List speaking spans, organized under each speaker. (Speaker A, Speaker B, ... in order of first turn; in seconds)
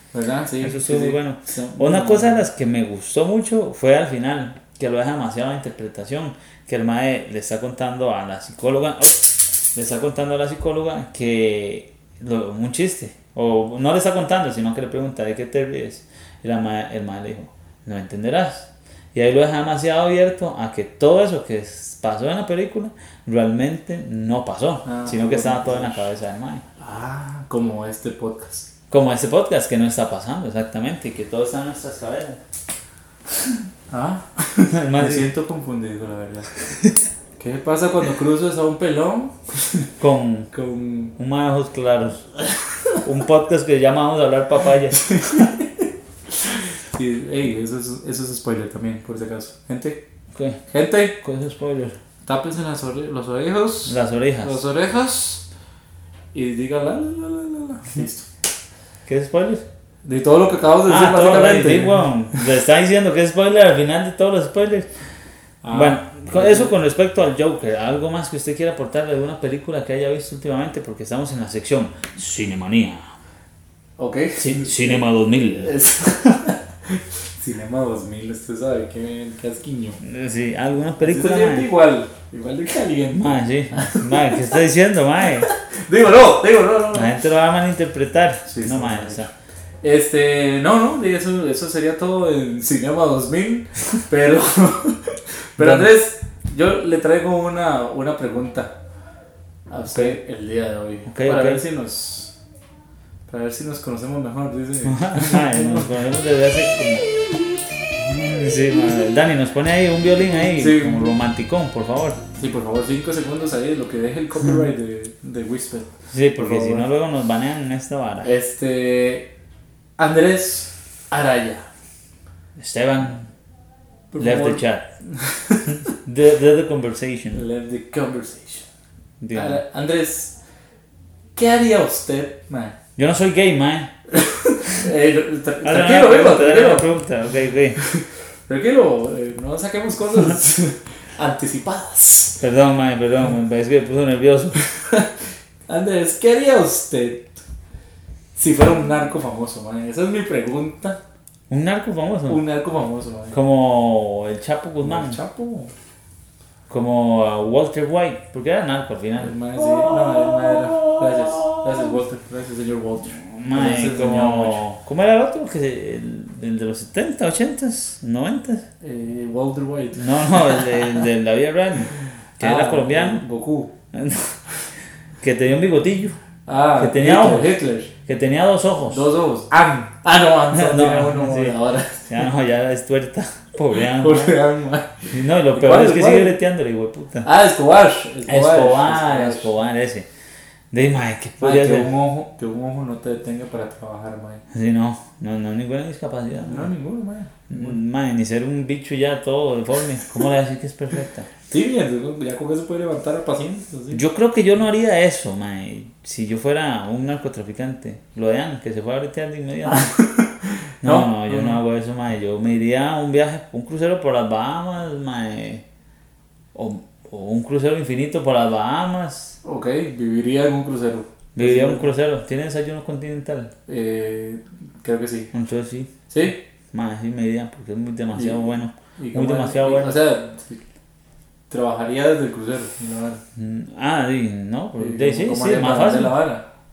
Speaker A: 0.1-2.4, 24.9-26.1, 26.8-28.7, 33.9-36.5, 37.4-39.9, 40.5-41.1, 45.1-45.6, 46.4-50.0, 50.7-51.2, 52.2-55.4, 56.3-58.3, 60.0-62.1, 65.6-66.8, 74.0-80.0, 81.0-84.4, 85.4-87.2, 88.5-89.3, 89.8-98.7, 99.7-102.3, 103.3-105.9, 110.3-111.2, 112.4-116.9, 118.2-119.3, 120.0-121.7, 124.1-125.9, 127.3-128.7, 129.3-130.3, 131.4-132.8, 134.1-136.9, 137.8-142.4, 144.7-145.1, 145.7-147.4, 148.4-151.0, 152.3-153.4, 154.8-155.7, 159.2-164.6, 168.8-170.9, 172.4-173.7, 176.5-177.9, 178.9-182.1, 183.7-186.3, 187.2-189.5, 191.4-194.4, 196.4-197.7, 201.5-204.0, 209.7-211.6, 219.4-221.9, 223.7-225.3, 226.1-226.4, 228.1-228.5, 229.0-230.6, 231.5-233.2, 234.8-236.4
Speaker B: 0.6-26.6, 28.9-32.4, 34.7-35.3, 40.0-40.5, 41.2-42.2, 43.0-45.5, 50.3-50.6, 51.2-52.0, 53.9-54.6, 59.1-59.6, 60.9-64.9, 65.7-73.1, 74.4-75.8, 80.0-81.7, 83.2-85.5, 86.9-89.3, 95.6-95.9, 99.9-100.2, 101.1-101.6, 104.8-107.1, 108.0-112.2, 116.1-118.3, 122.6-123.3, 124.2-124.8, 125.9-127.4, 129.2-129.6, 133.0-133.9, 135.6-137.8, 142.4-144.6, 151.5-152.4, 153.3-155.2, 156.7-161.9, 163.2-168.7, 170.0-173.2, 173.9-174.4, 175.2-176.2, 176.8-177.5, 178.1-179.0, 180.5-184.4, 185.1-187.3, 188.3-190.1, 190.7-191.9, 194.5-196.7, 197.5-201.3, 203.9-209.9, 210.8-215.6, 216.5-219.4, 221.4-223.5, 225.3-225.9, 226.7-230.0, 233.4-236.2